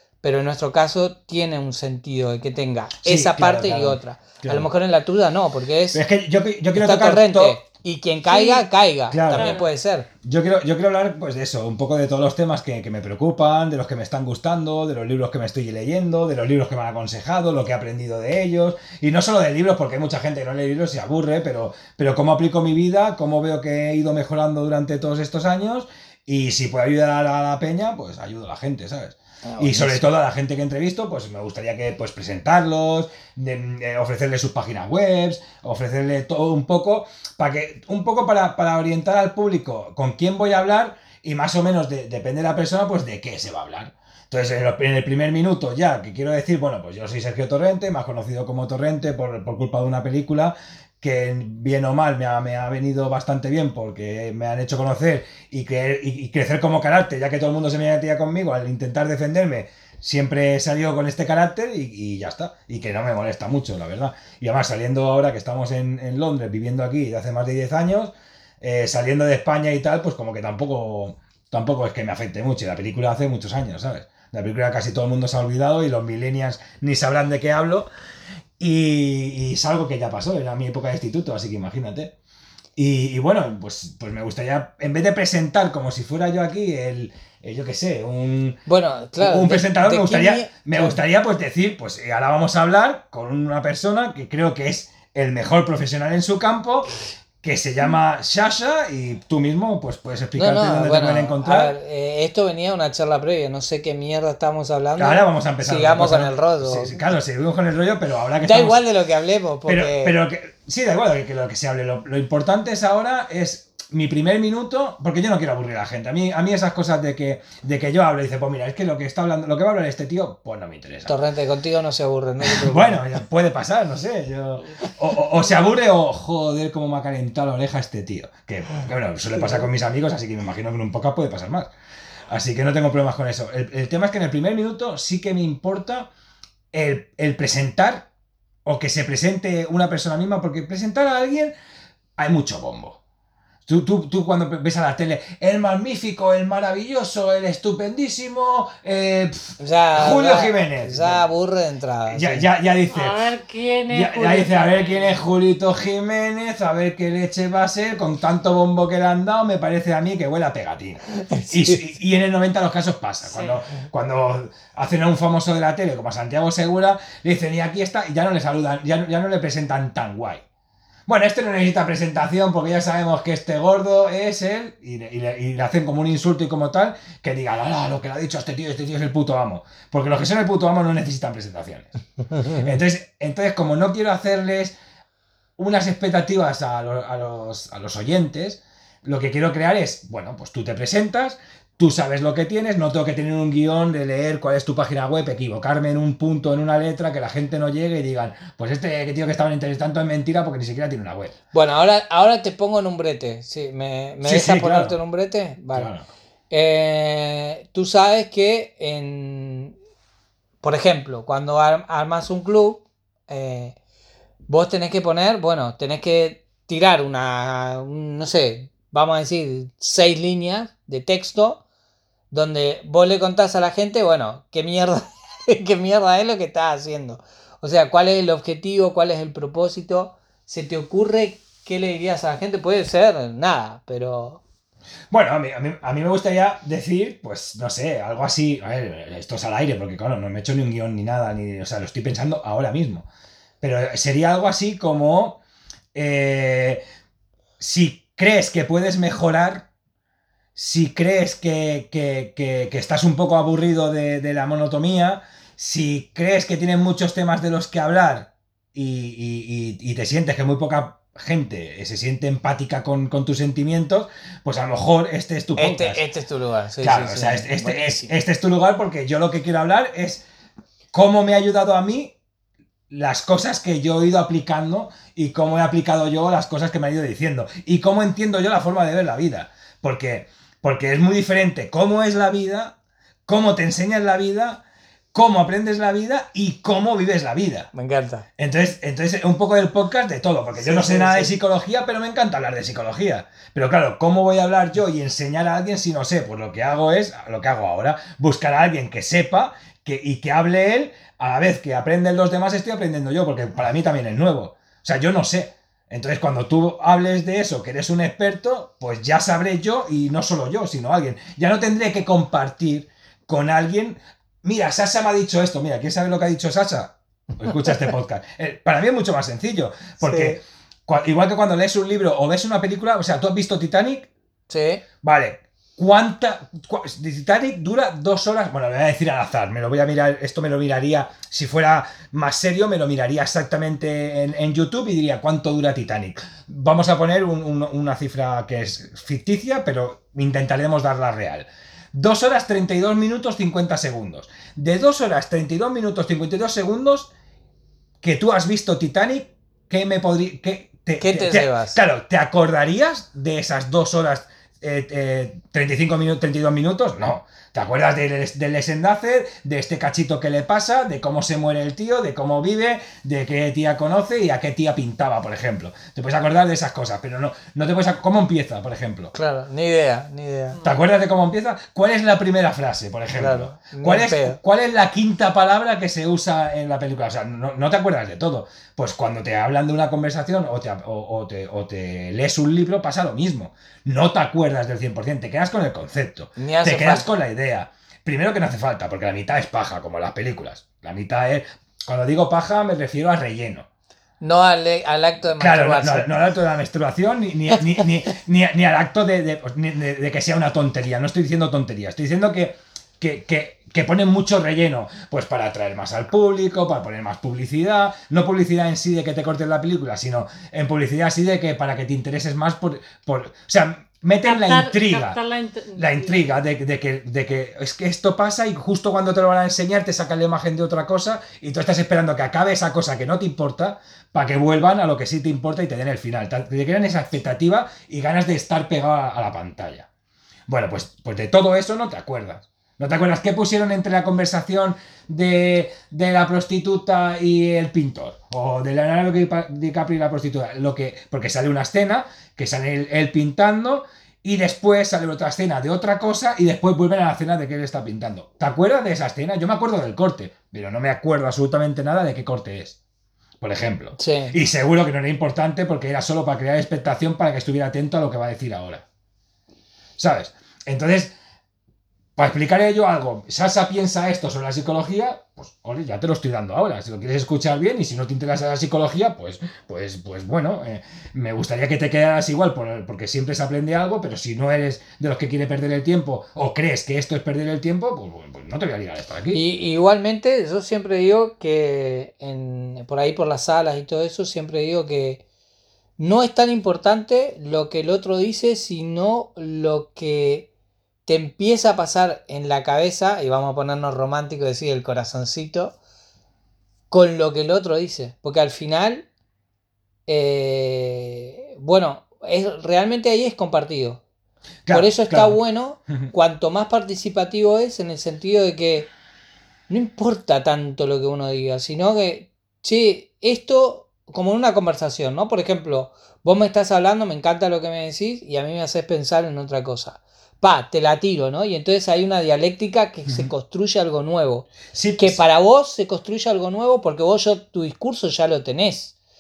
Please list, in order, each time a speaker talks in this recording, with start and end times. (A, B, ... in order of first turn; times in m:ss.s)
0:00.2-0:06.0 A
0:03.0-0:04.7 B
0:05.9-0:07.6 B
0:06.8-0:10.1 A
0:08.3-0:08.7 C
0:09.1-0:09.6 B
0:09.3-0:09.7 C
0:10.2-1:17.9 B
0:29.5-0:30.0 A
1:18.6-1:22.1 B
1:22.8-1:28.6 B
1:28.7-1:31.0 A
1:29.2-1:36.9 B
1:37.4-1:41.8 B
1:40.4-1:47.0 A
1:45.0-1:48.8 B
1:48.4-1:50.1 A
1:49.7-2:01.2 B
2:01.1-2:03.0 A
2:02.4-2:11.7 B
2:12.3-2:16.1 B
2:16.7-2:18.1 B
2:18.6-2:21.5 B
2:22.2-2:23.0 B
2:23.7-2:31.2 B
2:29.6-2:32.5 A
2:32.1-2:33.3 B
2:32.9-2:35.2 C
2:33.9-2:50.4 B
2:41.2-2:41.8 A
2:43.3-2:43.6 C
2:51.1-3:01.9 B
3:02.4-3:04.8 B
3:05.6-3:21.4 B
3:21.5-3:25.9 A
3:24.2-3:25.0 B
3:25.7-3:26.0 B
3:26.5-3:29.8 A
3:30.6-3:33.8 A
3:34.5-3:41.6 A
3:42.3-3:54.4 A
3:55.1-4:03.1 B
4:03.6-4:05.4 B
4:05.9-4:06.8 B
4:07.6-4:09.7 B
4:10.6-4:26.0 B
4:25.6-4:28.1 A
4:26.8-4:30.2 B
4:30.9-4:32.2 B
4:32.9-4:42.8 B
4:43.3-4:44.6 B
4:45.1-4:47.7 B
4:47.7-4:48.3 A
4:48.4-5:24.1 B
4:50.6-4:51.3 A
5:17.4-5:17.8 A
5:20.0-5:20.4 A
5:24.5-5:24.8 A
5:25.0-5:47.1 B
5:48.0-6:09.1 B
5:51.0-5:51.8 A
6:09.1-6:10.6 A
6:10.5-6:10.8 C
6:10.6-6:33.7 B
6:13.2-6:14.4 A
6:26.4-6:27.1 A
6:34.2-6:36.2 A
6:35.4-6:55.2 B
6:54.2-6:56.2 C
6:55.8-7:09.9 B
7:10.5-7:32.8 B
7:33.4-7:38.8 B
7:34.0-7:34.4 A
7:40.0-7:41.2 B
7:42.2-7:59.4 B
7:59.3-8:05.2 A
8:06.0-8:10.5 A
8:11.1-8:15.8 A
8:16.9-8:19.1 A
8:20.1-8:24.0 A
8:24.7-8:25.4 B
8:24.7-8:28.9 A
8:29.7-8:48.9 A
8:44.7-8:45.2 B